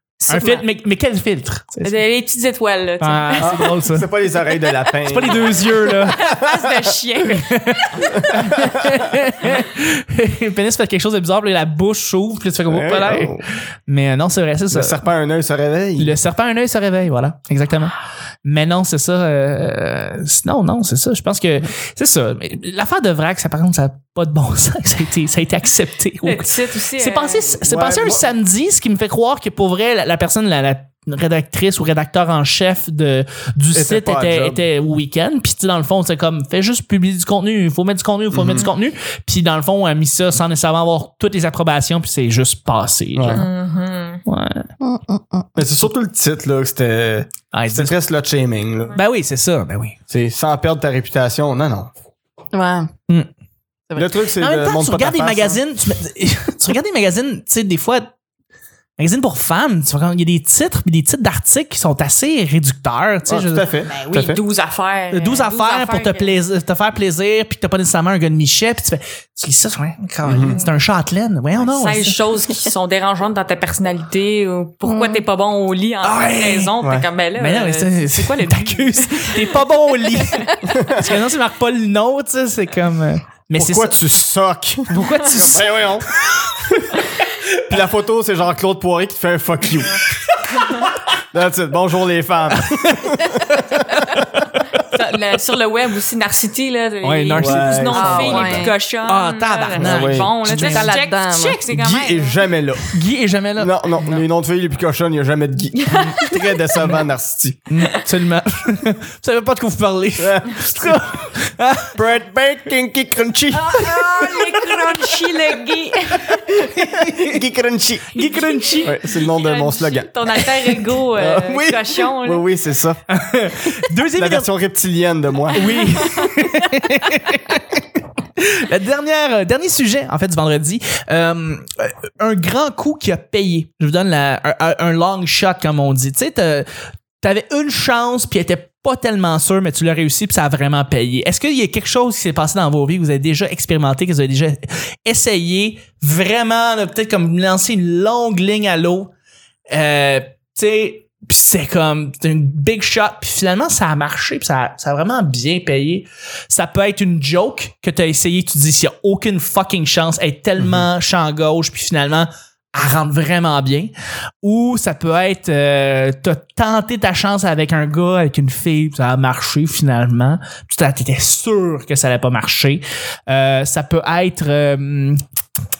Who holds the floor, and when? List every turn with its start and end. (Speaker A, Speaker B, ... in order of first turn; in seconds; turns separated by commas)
Speaker A: 0.3-2.0, Speaker B: 0.3-0.6, Speaker C: 1.8-3.7, Speaker A: 3.0-4.1, Speaker D: 3.4-6.7, Speaker A: 5.0-6.3, Speaker C: 6.0-7.6, Speaker A: 7.3-15.0, Speaker D: 8.0-8.9, Speaker D: 12.7-13.4, Speaker D: 14.7-16.2, Speaker A: 16.0-43.5, Speaker C: 26.2-27.5, Speaker D: 27.6-28.3, Speaker D: 33.7-34.6, Speaker D: 38.3-38.7, Speaker D: 43.1-43.4, Speaker C: 43.3-44.2, Speaker A: 44.3-44.7, Speaker B: 44.8-45.7, Speaker D: 45.5-49.0, Speaker A: 47.5-47.9, Speaker A: 48.9-50.0, Speaker D: 50.1-51.9, Speaker B: 52.5-52.9, Speaker D: 54.0-55.6, Speaker A: 54.4-58.1, Speaker A: 59.0-63.6, Speaker D: 63.3-64.4, Speaker C: 63.9-66.3, Speaker A: 65.1-72.2, Speaker D: 70.2-70.6, Speaker C: 70.3-70.6, Speaker C: 71.6-79.5, Speaker B: 74.8-75.2, Speaker A: 76.0-76.7, Speaker A: 77.4-84.0, Speaker C: 80.2-80.5, Speaker D: 80.7-81.0, Speaker D: 83.5-86.1, Speaker A: 84.9-86.7, Speaker D: 87.6-90.0, Speaker D: 91.2-93.5, Speaker A: 92.7-94.4, Speaker C: 94.9-102.4, Speaker A: 97.0-100.9, Speaker D: 97.3-98.5, Speaker B: 97.9-98.7, Speaker D: 99.8-100.3, Speaker B: 100.5-101.6, Speaker D: 101.7-102.9, Speaker A: 102.9-104.2, Speaker D: 103.6-107.6, Speaker C: 105.8-106.3, Speaker A: 107.7-111.9, Speaker D: 110.2-111.0, Speaker D: 111.9-114.6, Speaker C: 113.5-116.4, Speaker D: 116.3-118.2, Speaker A: 116.9-117.3, Speaker C: 118.1-122.4, Speaker A: 118.2-118.9, Speaker D: 118.8-120.4, Speaker D: 121.2-123.0, Speaker A: 123.1-124.5, Speaker D: 124.2-125.8, Speaker A: 125.5-127.8, Speaker A: 128.4-136.7, Speaker A: 137.2-149.1, Speaker A: 149.7-175.2, Speaker D: 160.6-160.9